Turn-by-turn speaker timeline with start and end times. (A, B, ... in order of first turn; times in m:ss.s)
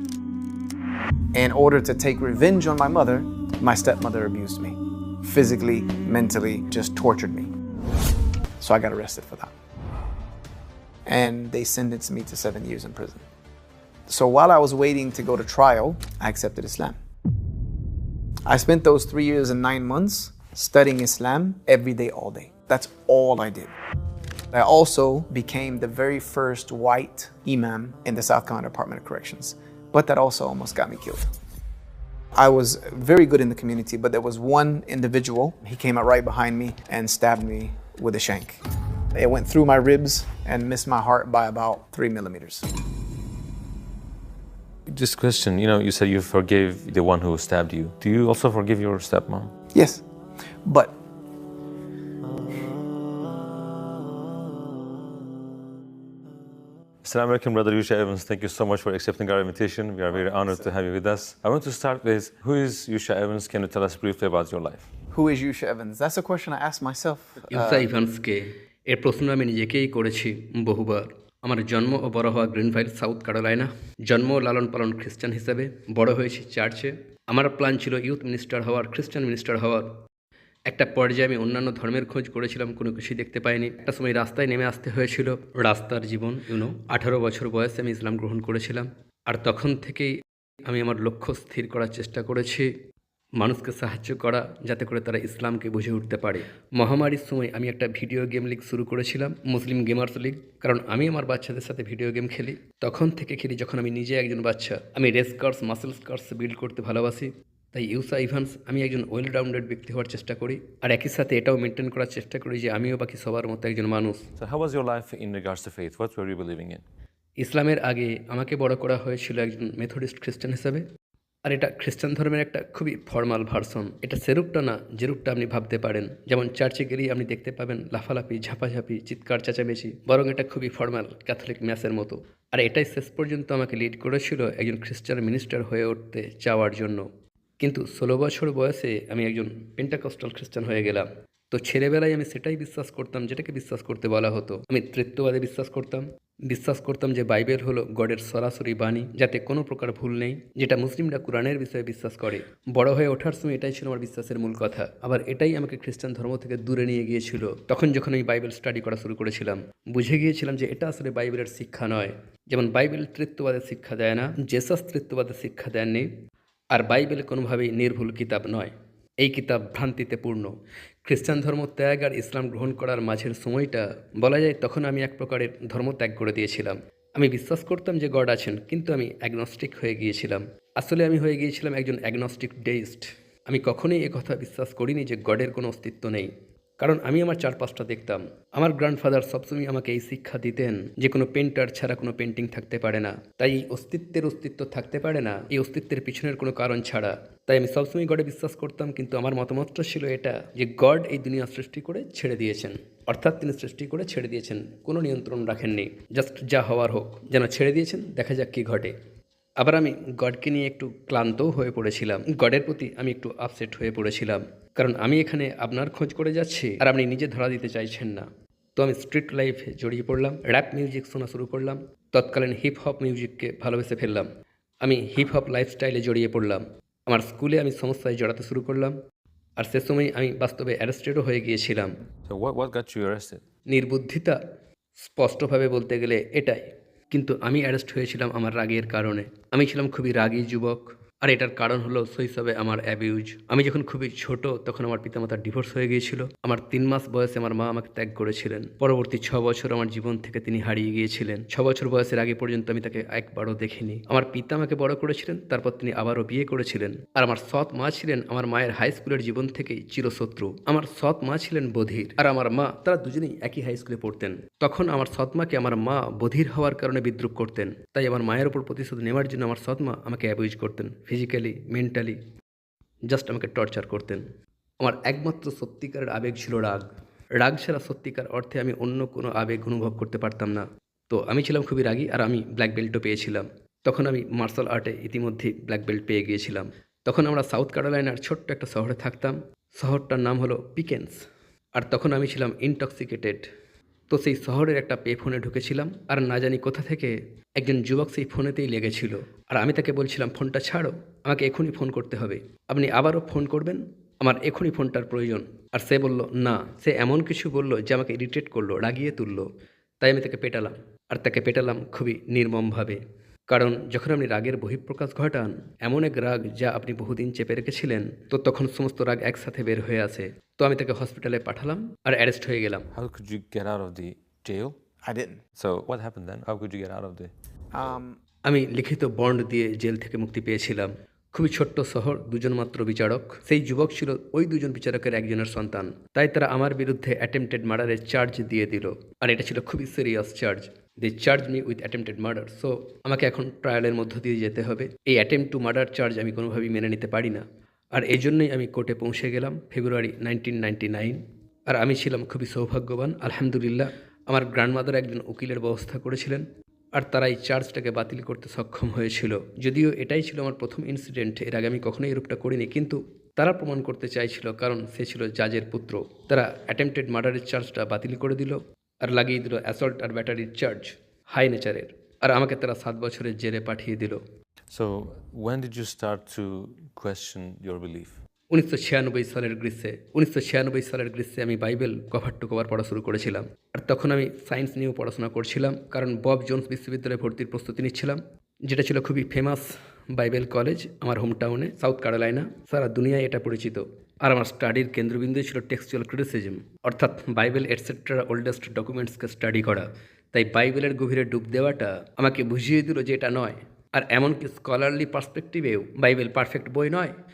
0:01.3-0:07.5 A
0:08.6-0:09.5 A
0:11.1-0:13.2 A
0:14.1-0:17.0 A
0:18.5-0:23.7 A
0:24.5-0:31.2 A
0:32.4-0:38.6 A
0:39.1-0:42.6 A
0:44.9-0:49.5 B
0:49.7-0:50.0 A
0:50.7-0:51.0 A
0:57.0-1:04.9 B
1:05.1-1:07.9 A
1:07.5-1:20.0 C
1:20.7-1:30.1 C
1:30.6-1:32.7 C
1:33.4-1:54.2 C
1:54.4-1:56.8 B
1:57.4-2:00.8 C
2:01.4-2:17.1 C
2:17.6-2:46.1 C
2:46.7-2:50.5 C
2:51.0-3:28.9 C
3:29.6-3:44.3 C
3:44.8-3:49.0 C
3:49.6-3:52.0 C
3:52.3-3:53.4 B
3:53.7-3:54.4 C
3:55.0-4:32.2 C
4:33.1-4:34.2 C
4:34.8-4:51.2 C
4:51.8-4:53.5 C
4:54.1-5:09.5 C
5:10.0-5:22.9 C
5:22.9-5:24.8 B
5:25.0-5:25.4 A
5:25.6-5:27.3 B
5:27.7-5:28.2 A
5:28.5-6:14.2 C
6:14.7-6:18.2 B
6:18.5-6:47.1 C